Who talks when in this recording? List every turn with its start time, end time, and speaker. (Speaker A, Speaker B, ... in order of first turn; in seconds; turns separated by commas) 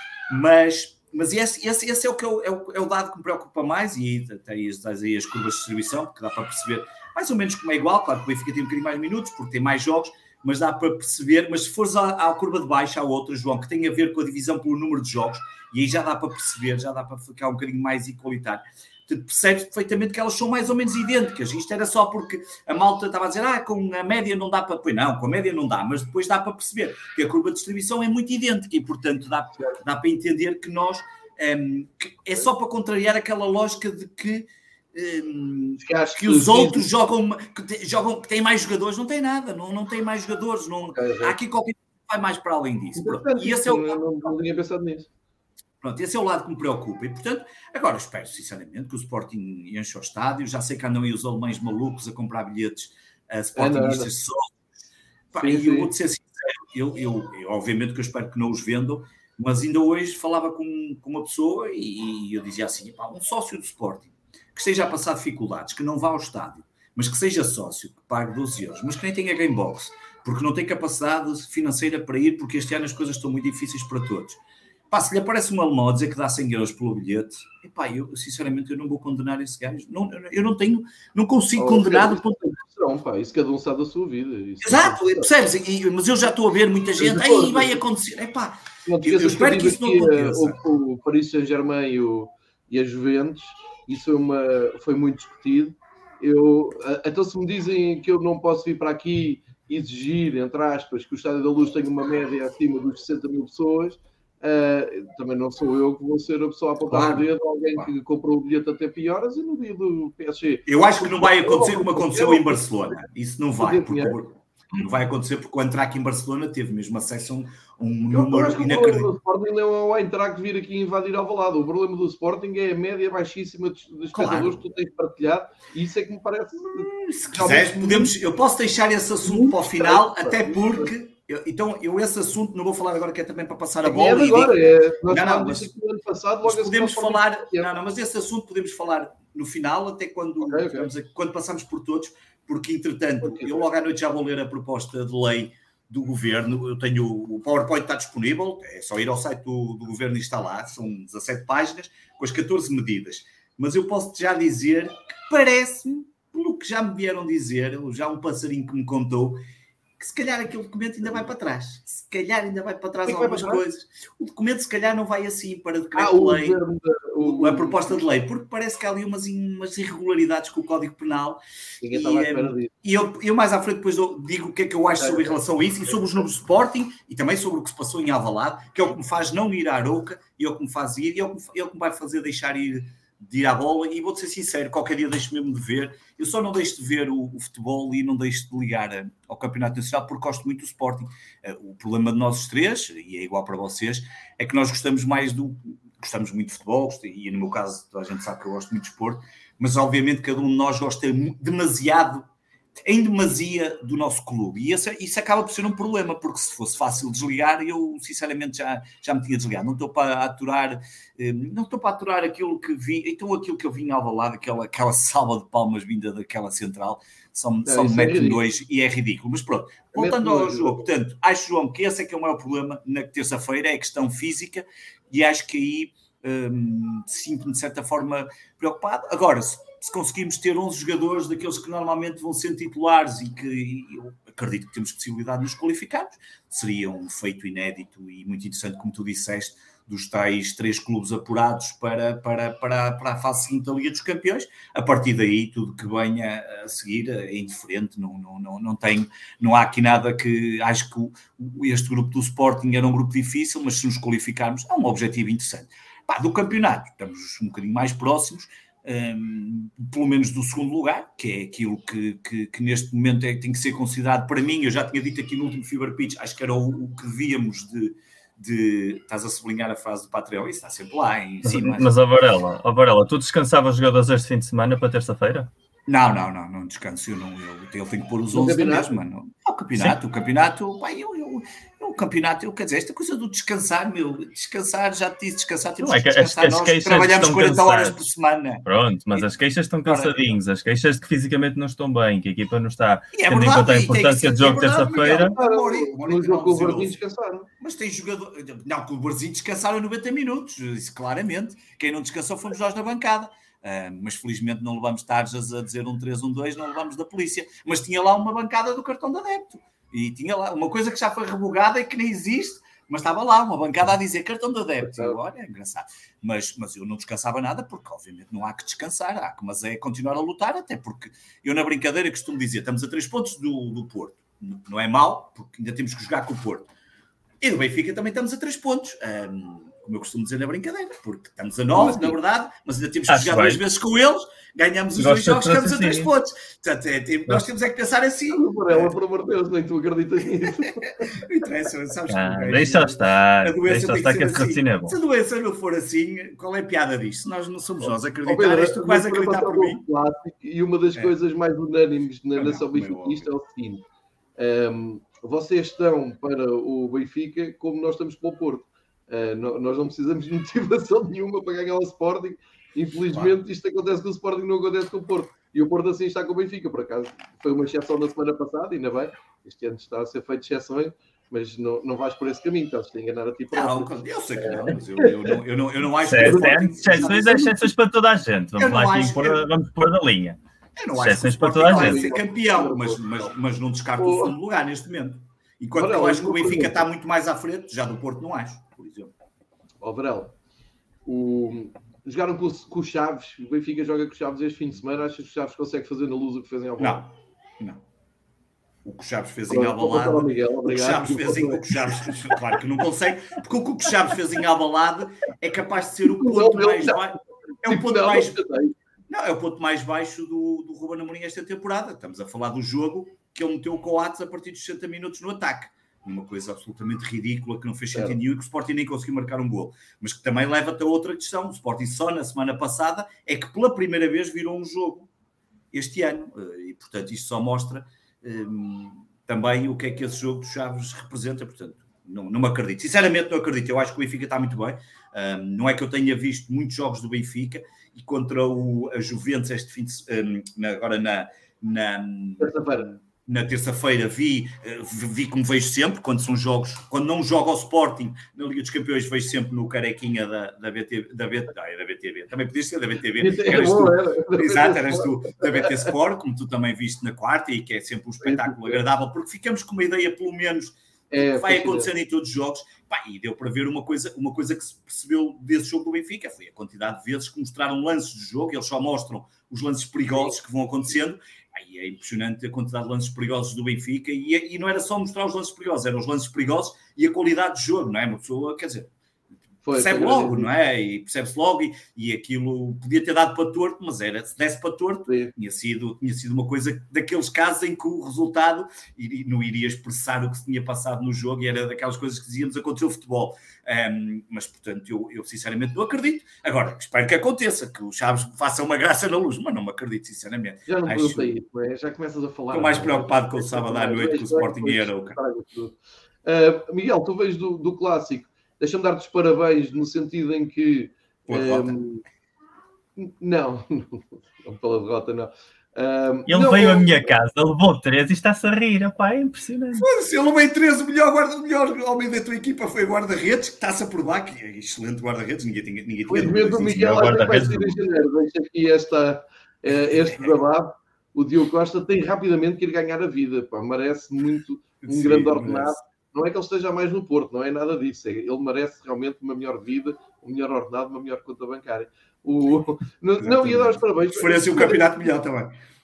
Speaker A: 0.3-44.3, Speaker B: 35.8-36.9, Speaker B: 40.9-41.4, Speaker B: 43.0-45.1, Speaker A: 45.8-54.6, Speaker B: 53.6-54.1, Speaker A: 55.3-74.4, Speaker B: 55.4-55.9, Speaker A: 74.9-82.4, Speaker B: 81.6-85.3, Speaker A: 84.6-90.6, Speaker B: 87.0-87.8, Speaker B: 88.8-113.0, Speaker A: 106.9-107.9, Speaker A: 110.7-119.1, Speaker B: 113.6-114.2, Speaker B: 118.1-128.1, Speaker A: 124.1-124.6, Speaker A: 126.7-135.7, Speaker B: 129.2-130.9, Speaker B: 133.8-137.7, Speaker A: 136.4-159.4, Speaker B: 140.5-140.9, Speaker B: 143.2-143.7, Speaker A: 160.0-166.6, Speaker B: 163.1-163.6, Speaker B: 165.9-167.8, Speaker A: 167.2-202.2, Speaker B: 171.8-172.7, Speaker B: 175.0-175.3, Speaker A: 202.8-271.9, Speaker B: 217.7-218.4, Speaker B: 219.9-220.8, Speaker C: 271.4-275.5, Speaker A: 275.9-289.3, Speaker B: 278.3-278.9, Speaker C: 285.8-288.0, Speaker C: 288.6-295.4, Speaker A: 289.9-290.4, Speaker A: 293.1-297.0, Speaker B: 295.0-297.5, Speaker A: 297.6-326.7, Speaker B: 314.8-315.2, Speaker A: 327.4-338.9, Speaker B: 331.8-332.1, Speaker C: 333.1-333.6, Speaker C: 335.0-336.1, Speaker B: 338.3-341.2, Speaker A: 340.6-349.9, Speaker C: 342.1-345.0, Speaker B: 348.2-353.8, Speaker A: 352.4-353.3, Speaker B: 354.4-375.4, Speaker A: 373.5-377.4, Speaker C: 376.0-380.4, Speaker B: 376.2-377.7, Speaker A: 378.6-379.4, Speaker A: 380.8-389.1, Speaker C: 380.9-382.1, Speaker B: 381.6-383.3, Speaker B: 384.0-384.3, Speaker B: 385.8-386.9, Speaker B: 389.8-390.3, Speaker B: 391.1-397.1, Speaker A: 396.8-397.8, Speaker A: 398.9-408.4, Speaker B: 399.5-402.4, Speaker B: 406.1-408.7, Speaker A: 409.1-425.1, Speaker A: 425.7-478.9, Speaker B: 442.4-442.9, Speaker B: 453.2-455.9, Speaker B: 458.2-458.8, Speaker B: 461.1-461.9, Speaker B: 479.6-480.5, Speaker A: 479.7-501.3, Speaker B: 485.1-485.3, Speaker B: 500.7-512.0, Speaker A: 502.5-505.2, Speaker A: 511.3-511.8, Speaker B: 513.0-517.1, Speaker C: 516.3-519.9, Speaker A: 519.8-527.2, Speaker B: 526.1-544.9, Speaker C: 526.9-527.8, Speaker A: 529.9-530.4, Speaker A: 534.8-535.8, Speaker A: 543.2-545.5